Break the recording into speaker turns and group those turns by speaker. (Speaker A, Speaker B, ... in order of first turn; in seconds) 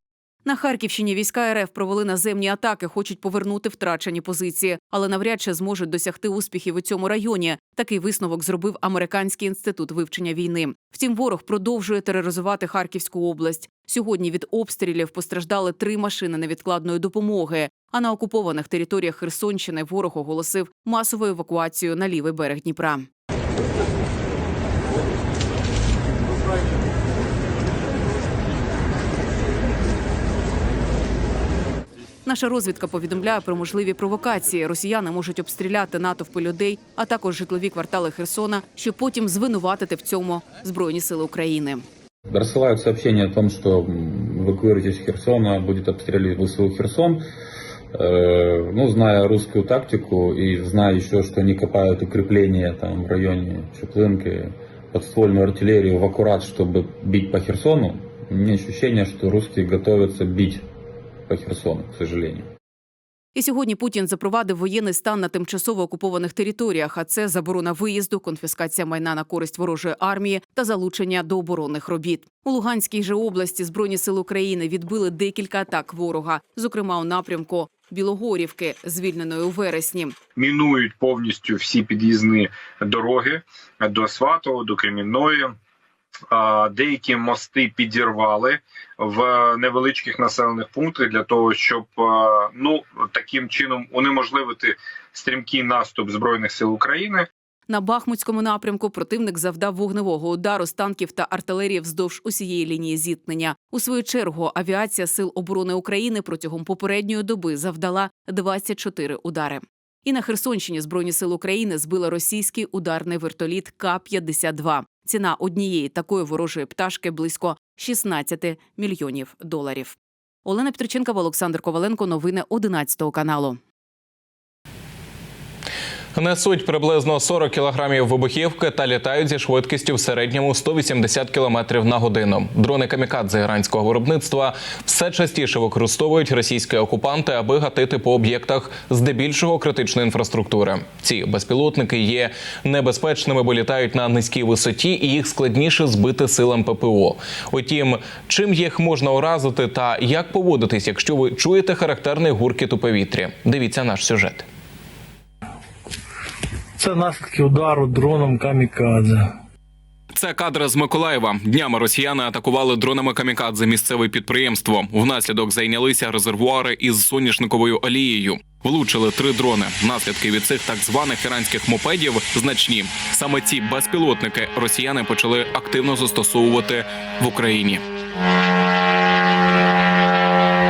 Speaker A: 0.4-23.1, 32.2-41.8, 63.3-80.2, 97.7-123.6
Speaker B: 42.3-47.2, 47.9-60.6, 61.3-62.5
Speaker C: 80.3-85.5, 86.3-97.2
Speaker D: 126.1-154.4, 160.1-177.8
Speaker E: 156.8-159.3